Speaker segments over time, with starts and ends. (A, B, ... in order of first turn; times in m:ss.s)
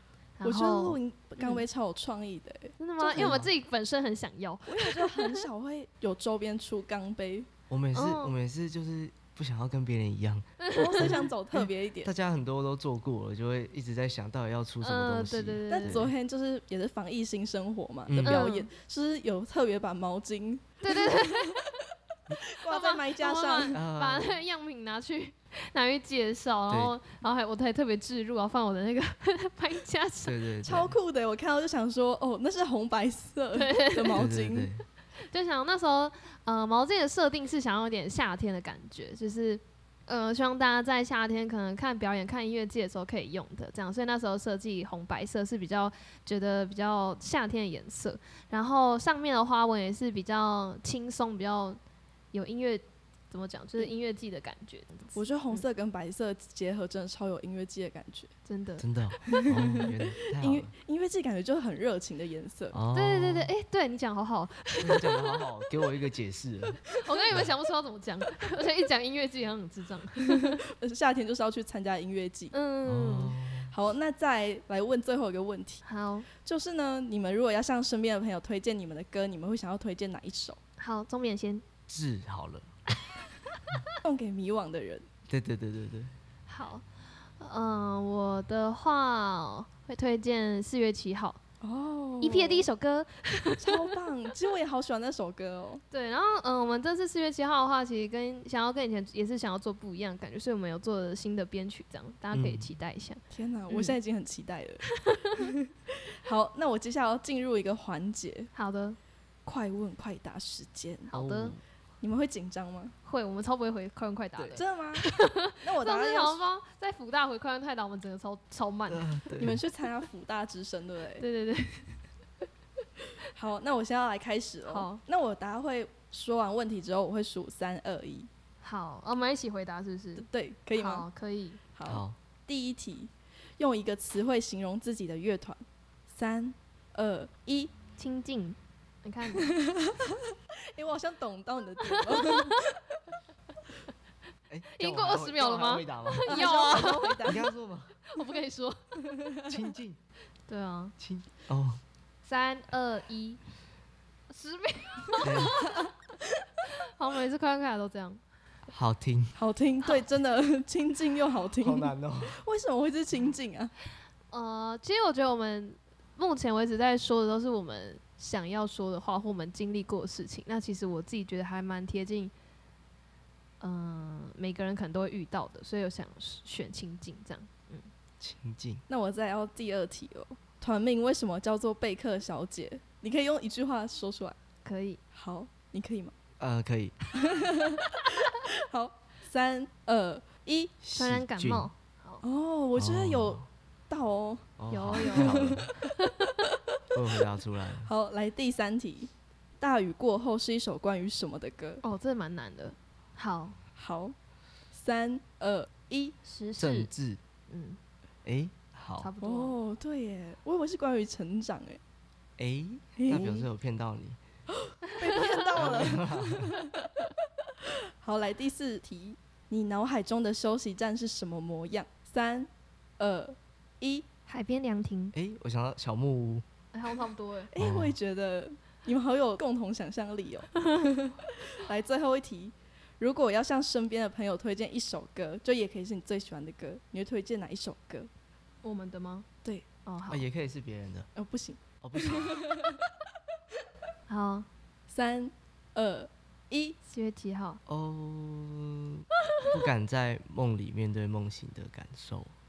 0:00.4-0:01.6 A
0:00.4-0:03.4 B
0:02.8-0:05.4 A
0:03.1-0:03.5 C
0:04.6-0:07.5 B
0:07.7-0:16.1 C
0:07.9-0:08.4 A
0:10.6-0:11.2 A
0:10.7-0:12.1 B
0:14.8-0:16.0 A
0:15.7-0:21.7 B
0:18.1-0:18.4 C
0:18.2-0:18.7 A
0:20.8-0:21.8 A
0:22.3-0:23.8 B
0:22.6-0:30.4 A
0:23.7-0:24.4 C
0:26.7-0:27.0 C
0:30.2-0:31.0 C
0:30.6-0:34.7 B
0:33.5-0:34.3 A
0:34.1-0:34.8 C
0:35.3-0:51.8 A
0:52.3-0:55.6 A
0:55.1-0:58.3 B
0:58.5-0:59.4 A
0:58.8-1:00.7 C
0:59.3-1:02.8 B
1:02.7-1:03.5 C
1:02.9-1:05.4 A
1:04.8-1:07.5 C
1:07.0-1:10.6 A
1:10.3-1:12.5 B
1:12.5-1:13.4 A
1:12.9-1:13.7 C
1:13.7-1:15.8 B
1:15.8-1:16.3 A
1:16.4-1:20.6 B
1:20.8-1:21.6 A
1:21.9-1:22.7 C
1:24.0-1:25.0 B
1:25.3-1:26.1 C
1:26.5-1:26.8 A
1:27.4-1:31.4 A
1:31.6-1:32.7 B
1:32.2-1:33.8 A
1:33.6-1:35.8 B
1:35.9-1:44.0 A
1:42.3-1:42.7 C
1:43.3-1:48.5 B
1:44.8-1:45.4 A
1:48.5-1:49.0 A
1:49.5-1:51.1 B
1:51.1-1:51.6 A
1:51.1-1:51.6 C
1:52.0-1:52.9 B
1:53.0-1:59.3 A
1:54.6-1:56.4 B
1:58.9-1:59.6 C
1:59.4-2:01.2 B
2:01.2-2:02.0 A
2:03.3-2:08.3 B
2:04.6-2:05.0 A
2:08.6-2:11.6 A
2:10.2-2:11.0 B
2:11.7-2:17.7 B
2:11.9-2:12.2 C
2:18.0-2:19.5 A
2:19.4-2:22.8 B
2:21.9-2:22.6 A
2:24.5-2:28.0 C
2:24.7-2:27.4 A
2:26.2-2:27.4 B
2:28.0-2:29.2 A
2:29.5-2:30.0 C
2:30.5-2:31.0 A
2:31.0-2:31.8 C
2:32.2-2:33.4 A
2:34.3-2:35.8 A
2:35.2-2:35.6 C
2:36.9-2:38.2 A
2:38.7-2:39.4 C
2:39.4-2:43.7 B
2:41.6-2:42.4 C
2:44.3-2:52.3 A
2:53.6-2:57.9 A
2:58.2-2:58.8 C
2:58.9-3:04.4 B
3:04.6-3:05.0 A
3:05.1-3:06.1 B
3:06.4-3:07.0 C
3:07.1-3:10.7 B
3:10.8-3:11.7 C
3:11.0-3:12.2 A
3:12.2-3:14.5 B
3:12.8-3:13.4 C
3:14.6-3:15.7 C
3:14.7-3:16.3 A
3:15.0-3:15.7 B
3:16.9-3:17.9 C
3:17.8-3:21.8 B
3:21.8-3:23.6 A
3:23.8-3:24.2 B
3:24.7-3:26.2 B
3:26.2-3:26.9 A
3:26.6-3:27.2 C
3:27.5-3:27.8 A
3:28.2-3:29.1 C
3:29.0-3:29.6 A
3:29.2-3:31.8 B
3:32.4-3:34.2 C
3:33.0-3:33.5 B
3:34.7-3:36.9 B
3:35.0-3:35.5 A
3:35.5-3:36.6 C
3:37.6-3:44.0 B
3:44.3-3:45.1 A
3:45.1-3:46.4 C
3:46.7-3:47.5 A
3:47.5-3:58.1 B
3:47.6-3:48.0 C
3:58.6-3:59.3 A
3:59.8-4:00.2 A
4:00.1-4:01.1 C
4:01.2-4:02.8 B
4:01.8-4:02.5 C
4:04.1-4:04.5 A
4:04.9-4:06.8 B
4:06.9-4:07.6 A
4:07.7-4:12.3 C